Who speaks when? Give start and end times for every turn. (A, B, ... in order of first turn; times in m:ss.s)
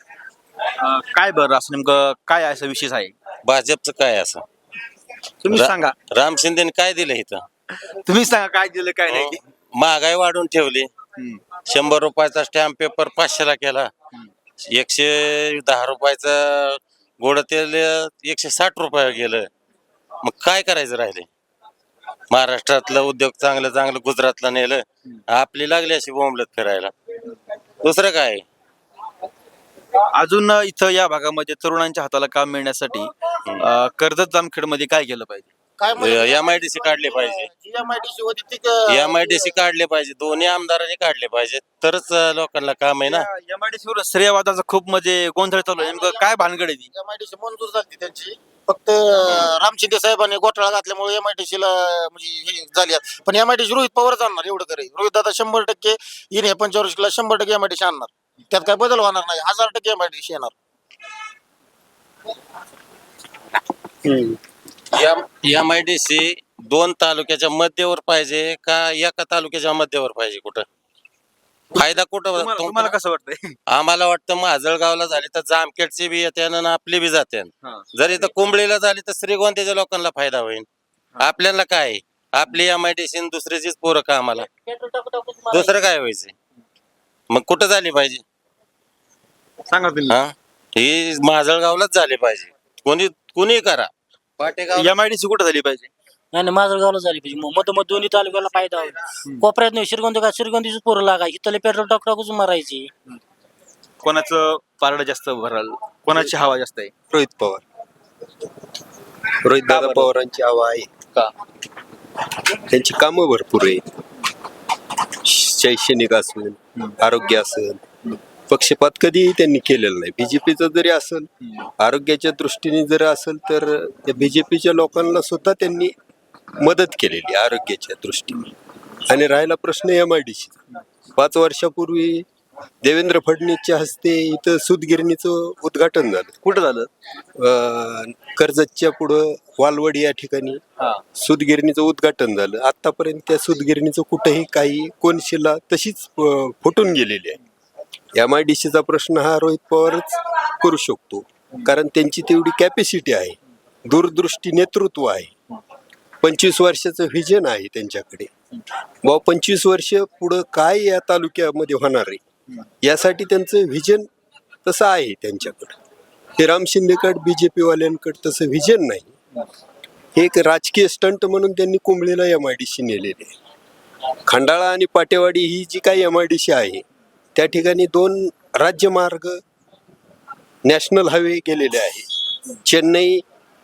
0:00.6-0:03.2 A
0:03.4-0:04.4 B
0:05.4-0:06.0 A
0:05.5-0:07.4 B
0:07.8-0:09.4 A
0:09.1-0:10.9 B
0:11.2-0:11.4 A
0:11.7-0:13.9 B
0:14.7-0:19.5 B
0:20.2-0:21.3 B
0:22.3-0:26.9 B
0:27.8-0:28.4 B
0:30.1-0:35.5 A
0:35.8-0:39.6 C
0:36.0-0:37.5 B
0:38.9-0:43.3 B
0:42.9-0:46.9 A
0:45.8-1:00.5 C
1:04.0-1:04.4 D
1:04.9-1:10.6 B
1:11.8-1:12.9 B
1:11.8-1:13.5 A
1:13.7-1:20.7 B
1:21.2-1:24.5 B
1:24.7-1:25.7 E
1:25.5-1:26.3 B
1:27.3-1:28.2 B
1:29.7-1:30.2 A
1:30.1-1:33.9 B
1:34.7-1:35.9 A
1:36.3-1:42.9 E
1:44.0-1:46.9 A
1:47.1-1:47.6 D
1:49.4-1:50.9 D
1:49.7-1:50.1 A
1:52.6-1:53.8 D
1:55.2-1:57.8 D
1:58.5-2:05.9 D
2:06.6-2:08.5 D
2:09.1-2:10.6 D
2:11.2-2:12.2 D
2:12.8-2:16.3 D
2:16.4-2:16.9 A
2:17.4-2:20.6 D
2:21.2-2:27.4 D
2:28.1-2:35.3 D
2:36.2-2:38.3 D
2:39.0-2:42.2 D
2:42.8-2:44.1 D
2:44.6-2:45.8 D
2:46.4-2:49.1 D
2:50.2-2:53.3 D
2:54.3-2:56.8 D
2:57.4-2:59.4 D
3:00.6-3:02.1 D
3:02.6-3:03.2 D